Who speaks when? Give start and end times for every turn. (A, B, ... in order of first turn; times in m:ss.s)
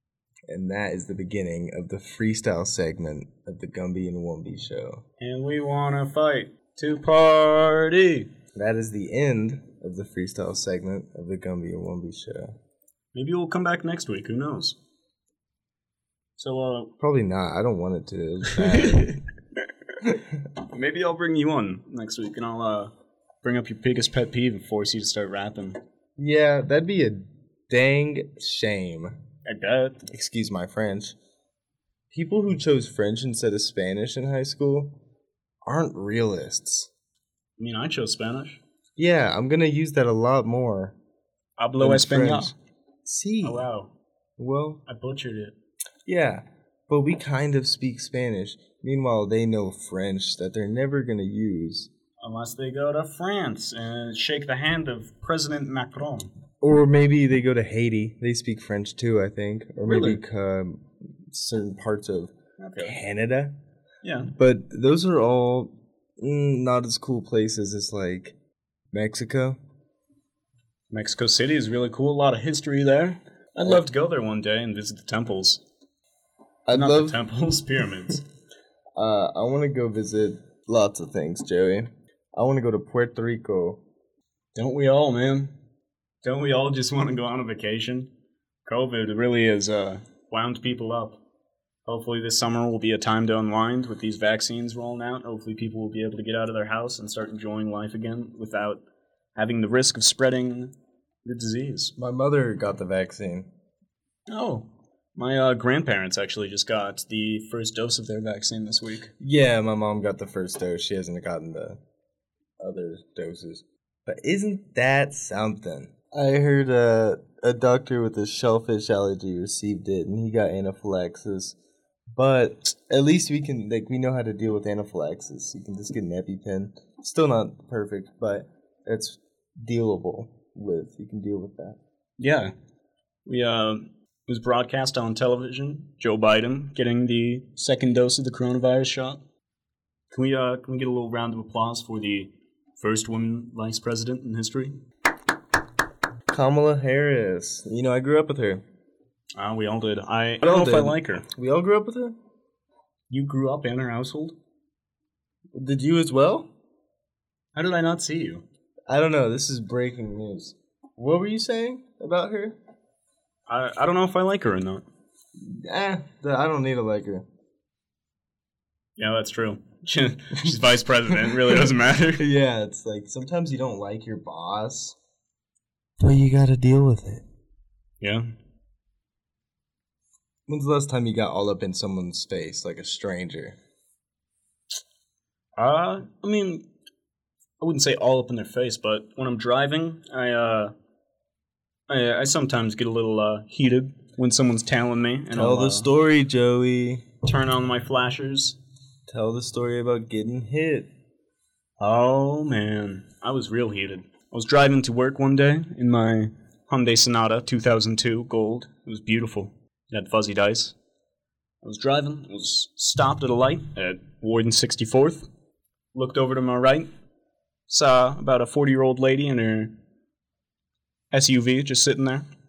0:00.5-0:05.0 A
0:05.2-0:08.3 B
0:08.5-0:12.6 A
0:13.1-0:14.8 B
0:16.4-0:16.9 B
0:17.0-0:19.2 A
0:18.6-0:19.2 B
0:20.6-0:25.8 B
0:26.2-0:29.2 A
0:29.4-0:30.1 B
0:30.1-0:31.2 A
0:32.1-0:35.0 A
0:35.6-0:36.9 A
0:37.6-0:38.6 B
0:39.0-0:41.0 A
0:41.6-0:42.5 B
0:41.8-0:42.5 A
0:43.0-0:43.6 A
0:43.4-0:43.9 B
0:44.4-0:44.8 A
0:44.9-0:45.6 B
0:46.1-0:51.9 A
0:52.2-0:56.3 B
0:56.6-1:03.6 A
0:59.9-1:00.2 B
1:02.6-1:03.0 B
1:04.0-1:04.3 B
1:04.3-1:08.4 A
1:08.9-1:09.6 A
1:10.9-1:15.6 B
1:16.7-1:17.2 A
1:16.7-1:18.2 B
1:19.0-1:23.8 A
1:24.6-1:25.5 B
1:26.2-1:28.1 B
1:28.7-1:31.2 B
1:31.9-1:38.8 B
1:39.4-1:40.7 B
1:41.2-1:41.9 B
1:42.0-1:43.5 A
1:44.3-1:49.1 B
1:49.2-1:51.8 A
1:52.6-2:01.6 A
2:02.1-2:11.8 A
2:12.2-2:12.5 B
2:13.3-2:19.2 B
2:20.1-2:24.8 B
2:26.3-2:28.6 A
2:29.4-2:31.3 B
2:30.4-2:32.2 A
2:33.1-2:34.4 B
2:35.5-2:36.5 A
2:37.6-2:38.4 B
2:38.9-2:42.6 A
2:43.5-2:44.8 B
2:45.4-2:47.3 A
2:49.0-2:52.3 B
2:51.1-2:51.6 A
2:52.2-2:55.0 A
2:56.0-2:57.2 A
2:58.0-2:58.3 B
3:00.5-3:03.6 A
3:05.6-3:06.7 B
3:07.6-3:10.7 B
3:11.9-3:15.9 B
3:15.3-3:17.1 A
3:17.2-3:18.6 B
3:19.1-3:20.9 A
3:21.8-3:30.8 B
3:31.6-3:35.3 B
3:36.0-3:36.9 B
3:37.7-3:39.8 B
3:41.1-3:42.3 B